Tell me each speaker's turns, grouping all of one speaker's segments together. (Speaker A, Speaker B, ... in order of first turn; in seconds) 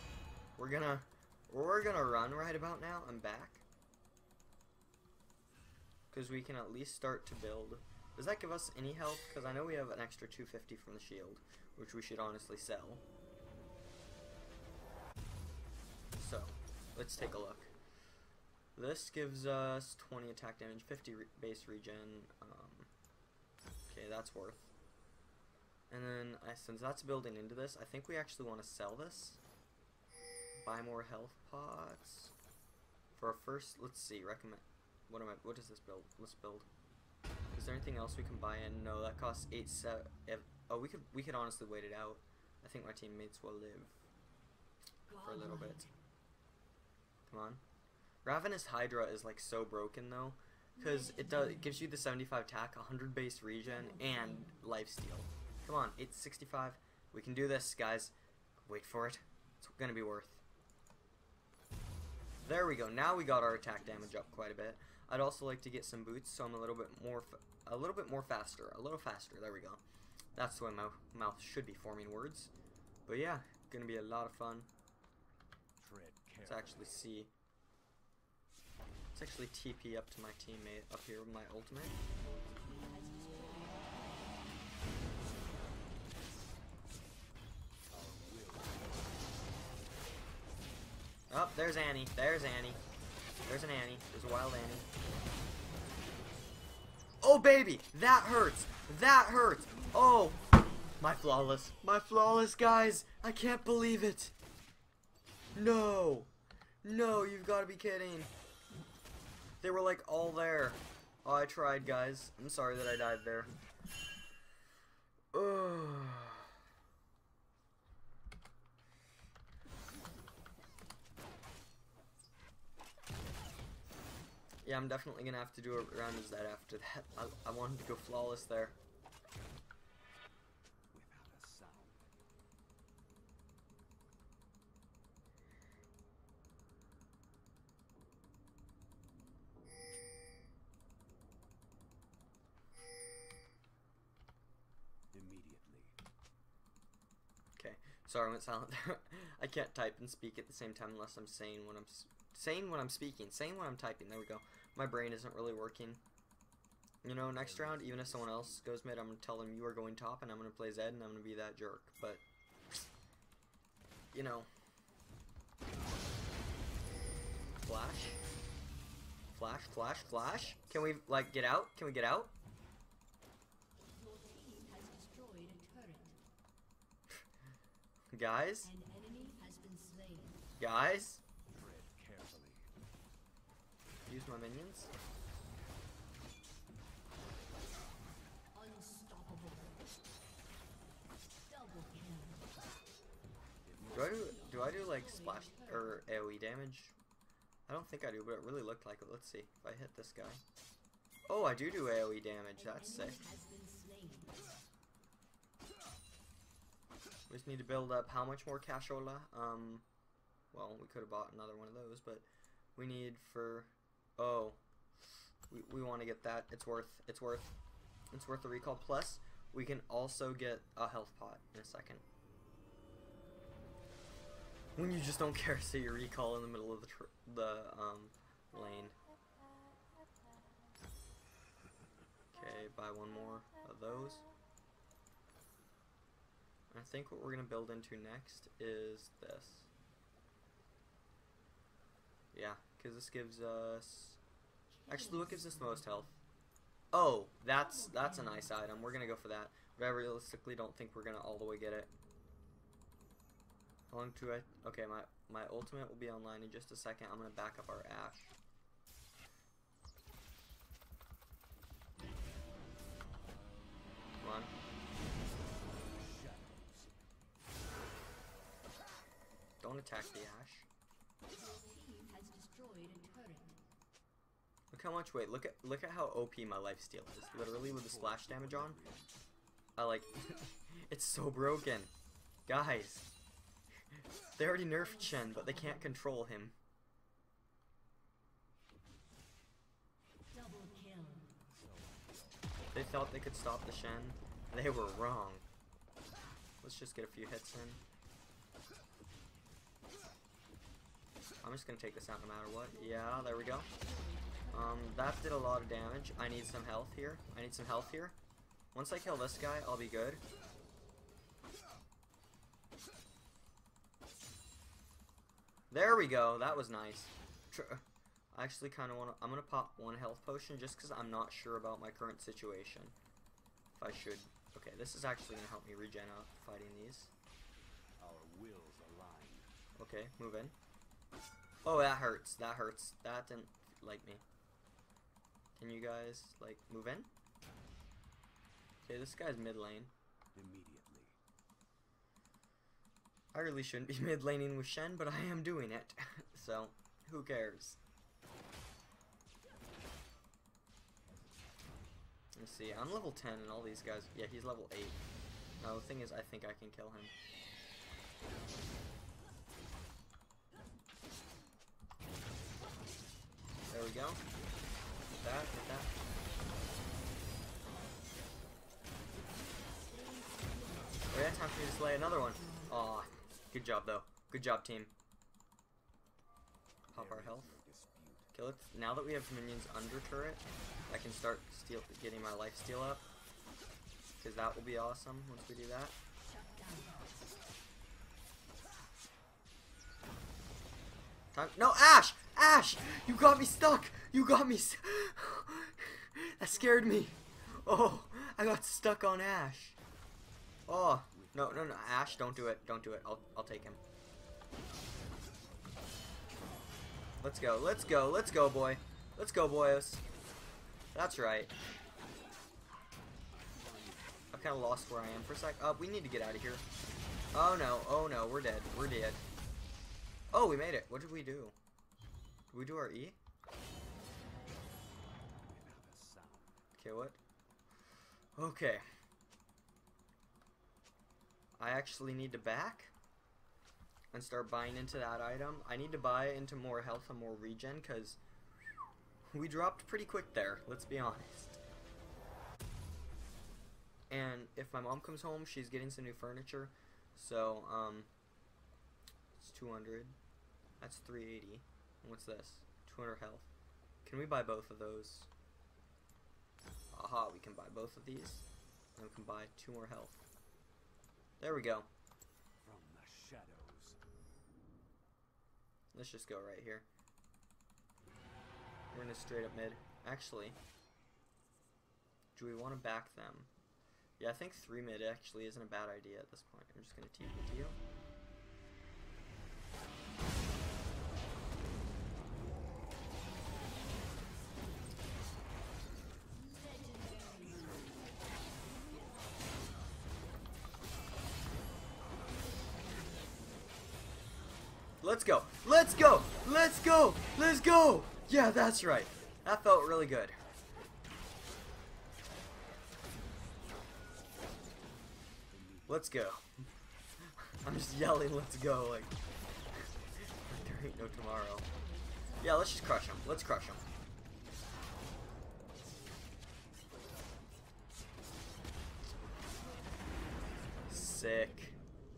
Speaker A: 0.6-3.6, 6.1-13.0, 16.1-17.7, 18.7-22.9, 23.9-24.7, 25.9-29.4, 30.6-32.3, 33.1-36.7, 37.5-44.0, 45.2-45.8, 47.3-47.6, 48.2-60.4, 62.4-69.8, 70.3-72.5, 73.1-74.7, 76.5-77.3, 79.1-82.0, 91.3-92.8, 93.4-94.9, 97.2-100.4, 101.0-104.3, 105.5-106.3, 106.8-108.3, 109.6-113.5, 115.3-116.5, 124.6-128.8, 147.6-156.0, 157.0-162.2, 164.1-164.5, 167.6-168.2, 169.3-172.3, 178.1-178.7, 180.6-181.2, 184.1-184.9, 193.9-196.9, 197.7-200.4, 201.3-203.2, 207.3-209.8, 210.5-214.6, 215.5-217.5, 218.1-222.0, 224.8-228.9, 232.3-234.2, 236.7-239.7, 242.3-244.2, 244.9-246.2, 246.9-251.9, 253.9-258.3, 264.2-264.5, 269.6-270.7, 274.7-278.8, 279.8-281.9, 282.5-283.1, 284.4-286.6, 292.7-295.4, 296.6-297.8, 301.4-303.7, 304.5-308.1, 308.7-310.2, 315.7-322.9, 323.8-327.1, 329.8-330.5, 331.6-334.2, 335.6-337.1, 338.8-339.9, 343.3-347.8, 352.3-355.0, 355.6-357.1, 363.7-364.2, 365.2-365.9, 371.1-374.9, 376.9-377.6, 378.3-383.1, 384.2-385.9, 391.3-399.8, 400.7-403.8, 407.2-410.0, 410.9-411.5, 414.3-416.6, 417.3-419.2, 420.3-421.5, 422.5-423.2, 426.7-427.2, 428.4-428.8, 431.6-432.9, 434.1-438.2, 439.3-441.6, 444.1-448.1, 449.4-450.2, 450.8-453.5, 454.0-455.3, 456.9-458.4, 458.9-460.3, 461.4-461.9, 465.9-466.9, 468.9-470.6, 472.3-473.5, 474.2-477.8, 495.0-500.4, 505.9-506.6, 507.4-509.1, 509.8-511.7, 512.4-513.8, 520.9-521.7
Speaker B: 45.1-45.9, 50.8-51.6, 53.7-54.5, 82.5-84.3, 99.7-100.9, 173.9-176.2, 178.6-180.5, 188.5-189.8, 191.5-192.5, 194.1-196.0, 202.6-204.6, 244.8-246.0, 247.5-249.1, 271.3-273.6, 284.7-285.9, 290.3-291.4, 302.7-304.9, 369.1-371.4, 372.3-372.7, 386.2-387.1, 396.5-397.2, 486.3-488.0, 492.3-493.3, 511.6-512.7, 519.5-521.5
Speaker C: 75.8-77.0, 87.9-89.5, 130.9-132.2, 145.1-145.9, 157.2-158.7, 169.4-171.1, 181.5-182.7, 193.6-194.6, 265.5-266.9, 277.5-279.1, 291.5-292.5, 328.0-329.5, 340.3-341.2, 376.9-378.3, 401.0-403.0, 413.3-415.2, 425.4-426.6, 462.6-464.0, 505.5-506.3